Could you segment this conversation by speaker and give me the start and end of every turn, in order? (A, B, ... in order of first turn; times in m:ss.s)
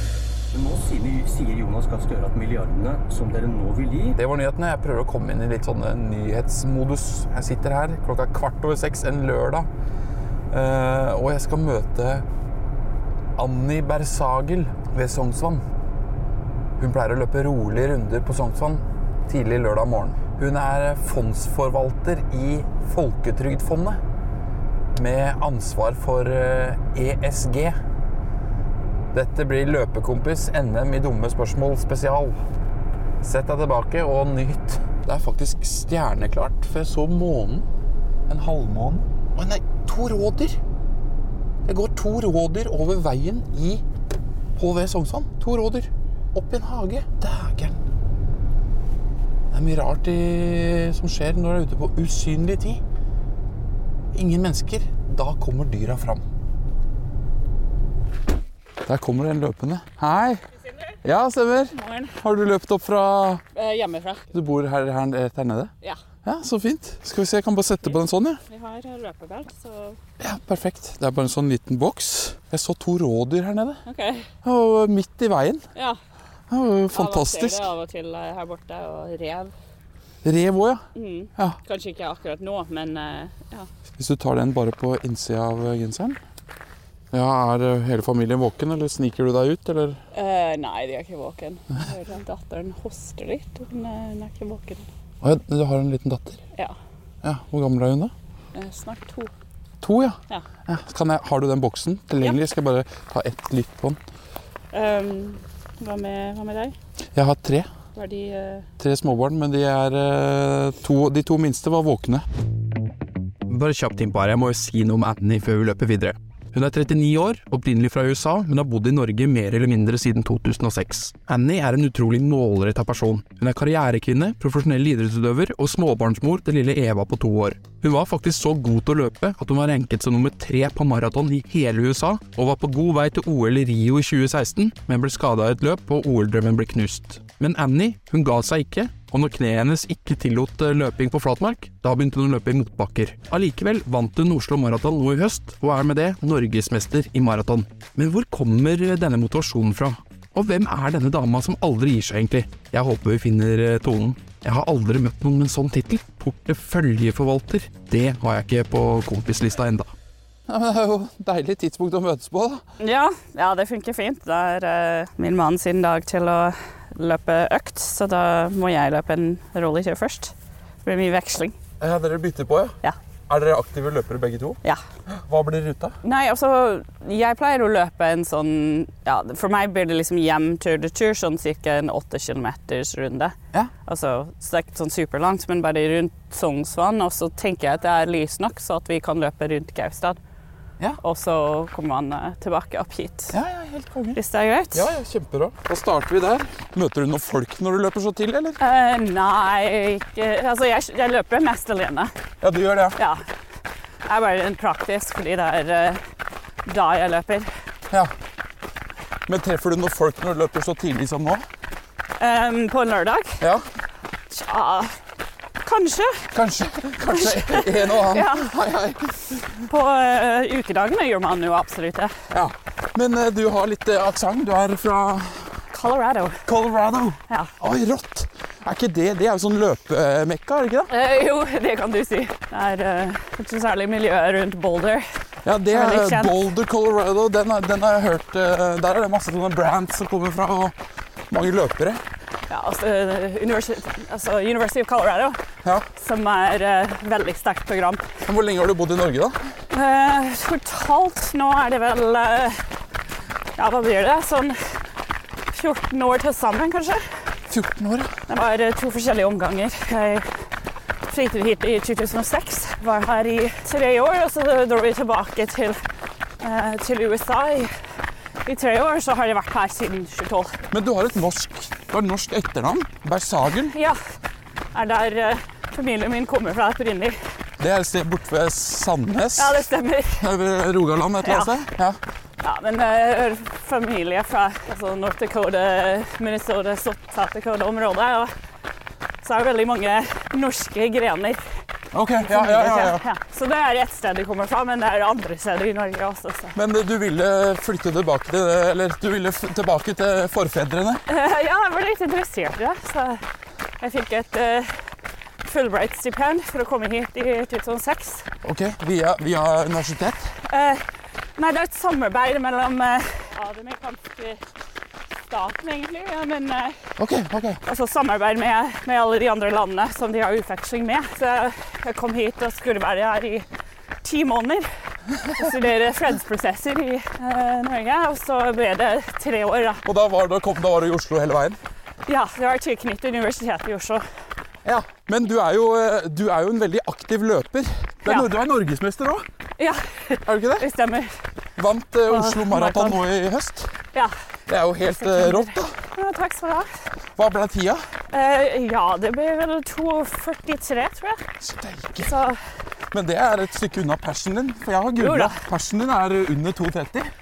0:00.5-0:04.2 A
0:04.2-0:09.7 B
0:10.5-0:12.2 B
0:13.4-0:15.6 B
0:16.8-0:24.0 B
0:24.9-0:27.8 B
0:29.1-0:32.4 B
0:33.2-0:37.7 B
0:38.3-0:40.6 B
0:41.6-0:43.8 B
0:44.6-0:47.8 B
0:49.5-0:52.8 B
0:54.1-0:56.3 B
0:58.8-1:00.4 B
1:01.0-1:03.4 B
1:01.7-1:02.2 C
1:03.5-1:04.3 C
1:04.3-1:05.7 B
1:06.2-1:08.4 B
1:08.5-1:10.0 C
1:10.2-1:13.8 B
1:13.8-1:14.3 C
1:14.4-1:15.6 B
1:16.5-1:17.7 B
1:16.9-1:19.5 C
1:20.2-1:20.8 B
1:20.9-1:23.7 C
1:24.0-1:26.2 B
1:27.1-1:30.0 B
1:30.1-1:34.9 C
1:35.2-1:36.4 B
1:37.2-1:38.1 B
1:38.5-1:39.3 C
1:39.8-1:44.0 B
1:44.7-1:46.7 C
1:47.1-1:47.7 B
1:47.9-1:48.7 C
1:48.8-1:52.2 B
1:53.5-2:39.9 B
2:40.5-2:42.6 B
2:42.8-2:50.3 C
2:50.8-2:51.6 C
2:51.8-2:52.8 B
2:53.3-2:54.6 B
2:55.1-2:56.0 B
2:56.0-3:10.2 C
3:11.0-3:13.3 C
3:13.3-3:14.2 B
3:14.1-3:14.9 C
3:14.7-3:18.6 B
3:18.6-3:22.1 C
3:22.4-3:23.0 B
3:23.0-3:23.2 C
3:24.0-3:26.0 C
3:26.6-3:27.5 C
3:29.3-3:31.4 B
3:32.2-3:33.4 C
3:33.4-3:33.6 B
3:34.3-3:35.0 C
3:35.6-3:36.3 C
3:36.3-3:39.4 B
3:37.1-3:38.5 C
3:39.6-3:42.1 C
3:42.3-3:45.5 B
3:45.7-3:46.4 C
3:46.4-3:50.9 B
3:50.9-3:55.0 C
3:55.4-4:00.7 B
3:55.7-3:56.3 C
4:01.3-4:02.0 B
4:02.5-4:05.4 C
4:05.9-4:08.0 C
4:08.2-4:09.4 B
4:09.7-4:12.6 C
4:13.6-4:14.8 C
4:15.5-4:17.0 C
4:17.5-4:18.1 B
4:18.3-4:20.3 C
4:21.1-4:25.8 C
4:26.4-4:27.7 C
4:28.4-4:30.6 C
4:30.7-4:33.7 B
4:33.7-4:34.0 C
4:34.7-4:37.2 C
4:37.6-4:39.7 B
4:39.4-4:40.2 C
4:40.2-4:42.0 B
4:41.2-4:41.5 C
4:42.4-4:48.3 C
4:49.2-4:51.4 C
4:51.9-4:53.0 B
4:52.2-4:56.6 C
4:56.5-5:01.0 B
5:01.1-5:03.2 C
5:03.8-5:04.7 C
5:05.4-5:08.3 C
5:08.4-5:10.3 B
5:10.5-5:10.8 C
5:11.4-5:14.4 C
5:15.3-5:16.8 C
5:17.0-5:17.6 B
5:17.6-5:23.4 C
5:24.0-5:24.7 C
5:25.2-5:29.8 C
5:29.8-5:31.6 B
5:32.1-5:34.0 C
5:34.6-5:39.2 B
5:39.6-5:41.1 C
5:40.2-5:40.6 B
5:41.6-5:43.7 B
5:42.1-5:43.0 C
5:44.5-5:45.7 B
5:45.0-5:46.7 C
5:47.2-5:47.8 B
5:48.1-5:51.2 C
5:51.4-5:52.2 B
5:52.0-5:52.4 C
5:52.9-5:57.1 B
5:55.0-5:55.4 C